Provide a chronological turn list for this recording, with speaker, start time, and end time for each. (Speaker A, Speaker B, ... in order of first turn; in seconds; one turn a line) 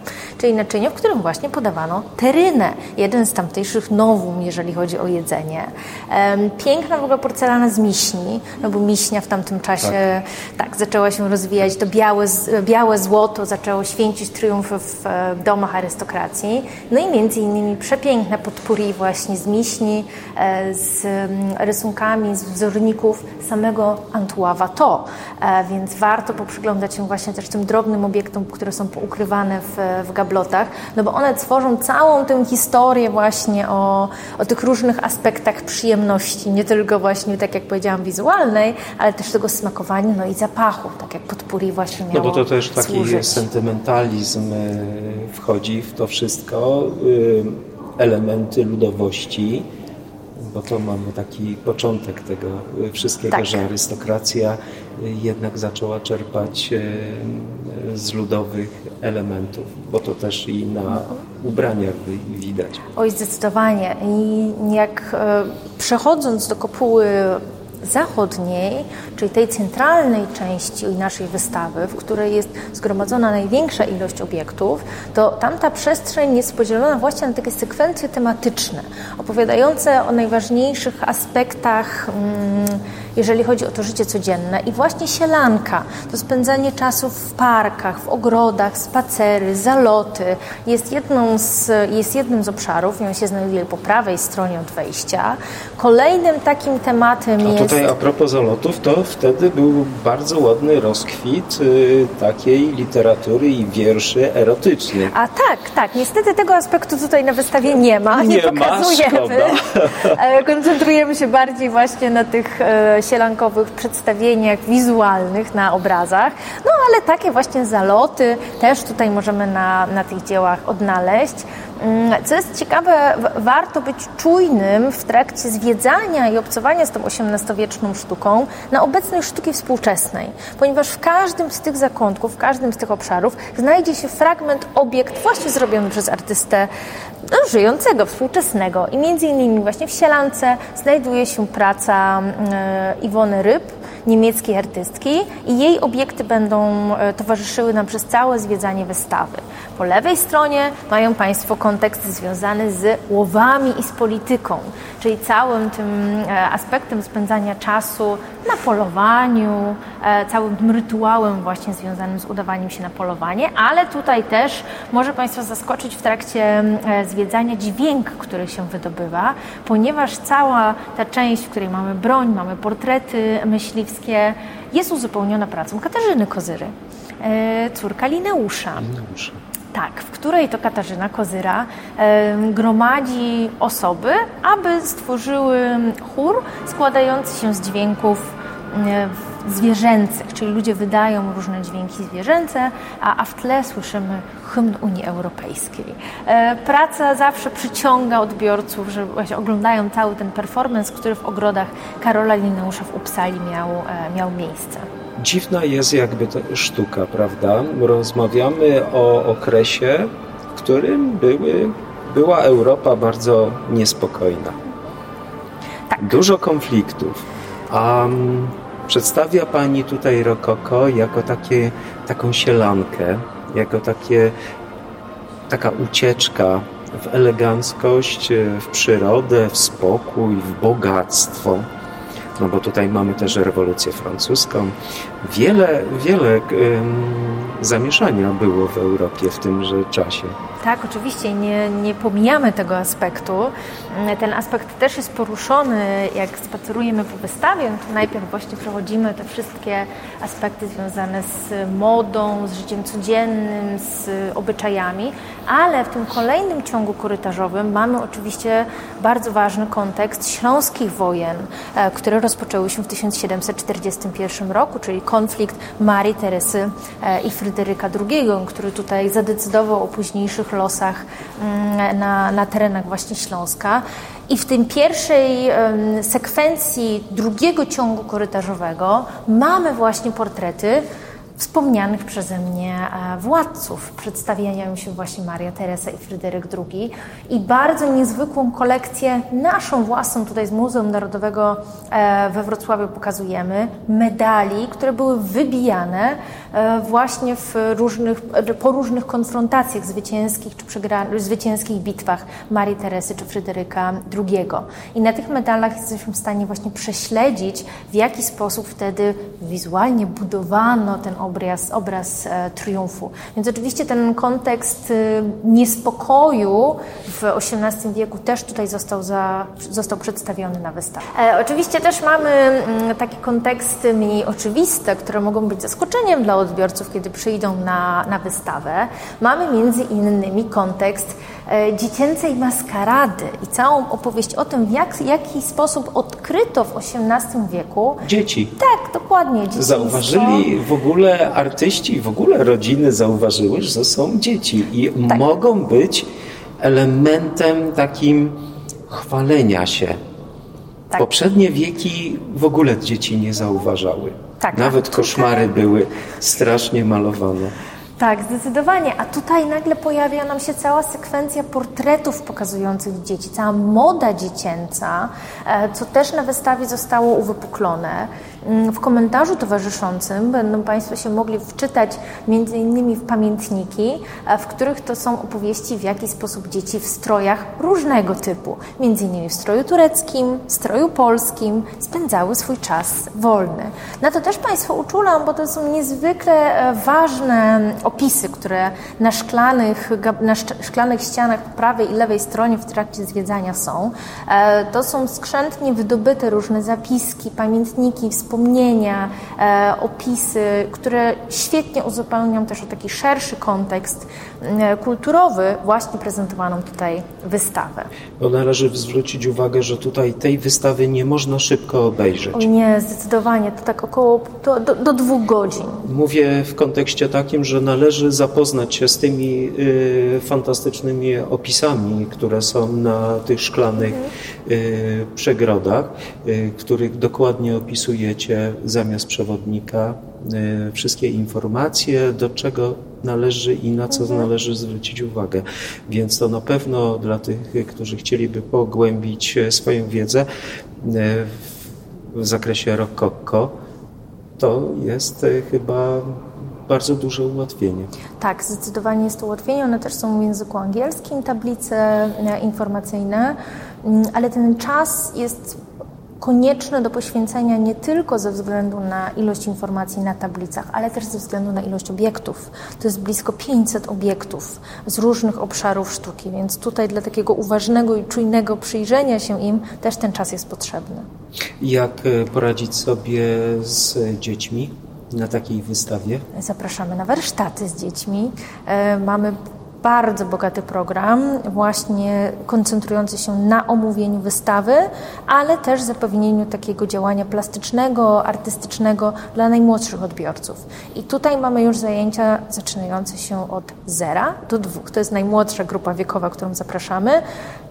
Speaker A: 0.4-43.5
Speaker B: 42.1-49.7
Speaker B: 50.4-62.8
Speaker A: 53.3-53.7
Speaker A: 63.0-97.9
Speaker B: 97.4-105.1
Speaker A: 105.1-136.7
Speaker B: 108.1-110.2
Speaker A: 137.2-178.9
Speaker B: 178.8-179.4
Speaker A: 179.7-204.9
Speaker B: 205.2-214.6
Speaker B: 216.0-224.3
Speaker B: 225.5-231.7
Speaker B: 232.4-240.4
Speaker A: 240.6-280.9
Speaker A: 281.4-338.0
Speaker B: 338.0-338.6
Speaker A: 338.6-340.5
Speaker B: 339.6-346.1
Speaker B: 346.6-350.0
Speaker B: 350.9-357.5
Speaker A: 354.4-355.5
Speaker A: 358.0-407.9
Speaker B: 408.2-412.5
Speaker A: 412.3-415.9
Speaker B: 415.8-440.2
Speaker A: 423.8-424.1
Speaker B: 440.8-441.5
Speaker B: 442.1-443.6
Speaker B: 444.4-447.9
Speaker A: 448.2-455.6
Speaker A: 456.2-471.1
Speaker B: 471.6-476.3
Speaker A: 476.3-497.2